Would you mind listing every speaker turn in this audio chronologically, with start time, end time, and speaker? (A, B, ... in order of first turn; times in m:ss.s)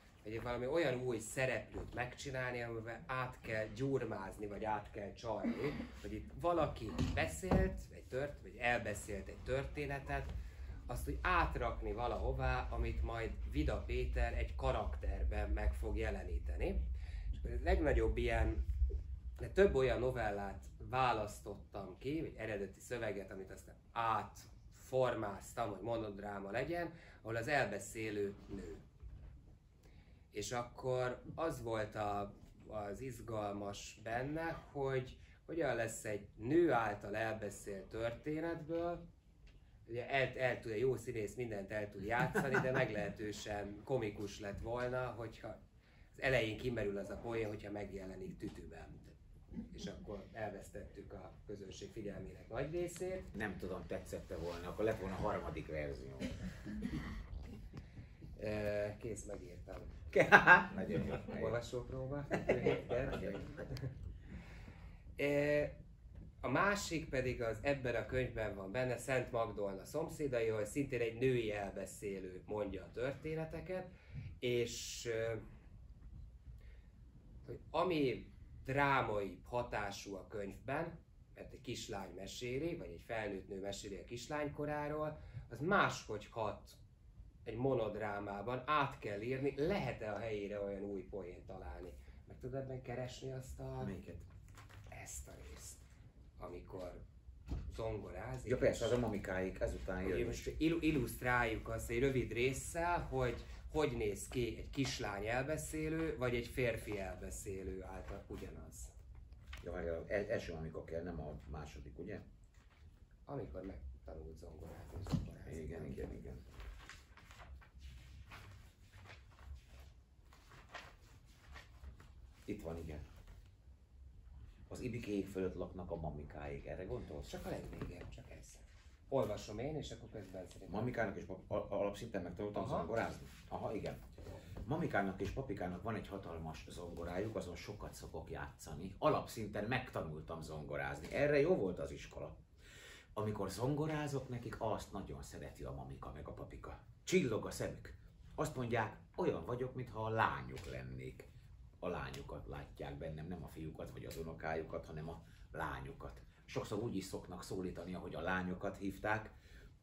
0:00.2-0:10.3 A
0:10.9-0:16.8 A
0:17.4-0:18.6 A
0:19.4-0:28.8 A
0:30.3-0:39.0 A
0:39.8-0:45.6 A
0:46.1-0:49.2 A
0:49.7-0:53.3 A
0:53.3-0:56.4 B
0:58.4-0:59.9 A
1:00.1-1:01.6 B
1:01.2-1:03.8 A
1:02.3-1:03.7 B
1:05.2-1:05.8 A
1:06.4-1:15.4 A
1:17.4-1:26.8 A
1:27.4-1:33.9 A
1:33.8-1:34.2 B
1:34.9-1:35.8 A
1:36.4-1:37.0 A
1:37.7-1:39.0 A
1:38.4-1:40.5 B
1:40.0-1:48.9 A
1:49.6-1:52.2 B
1:53.3-1:56.5 A
1:55.4-1:56.4 B
2:02.4-2:03.0 B
2:04.7-2:07.3 B
2:07.3-2:10.9 A
2:10.7-2:14.0 B
2:12.5-2:12.9 A
2:14.6-2:22.4 B
2:23.1-2:31.3 B
2:31.8-2:39.4 B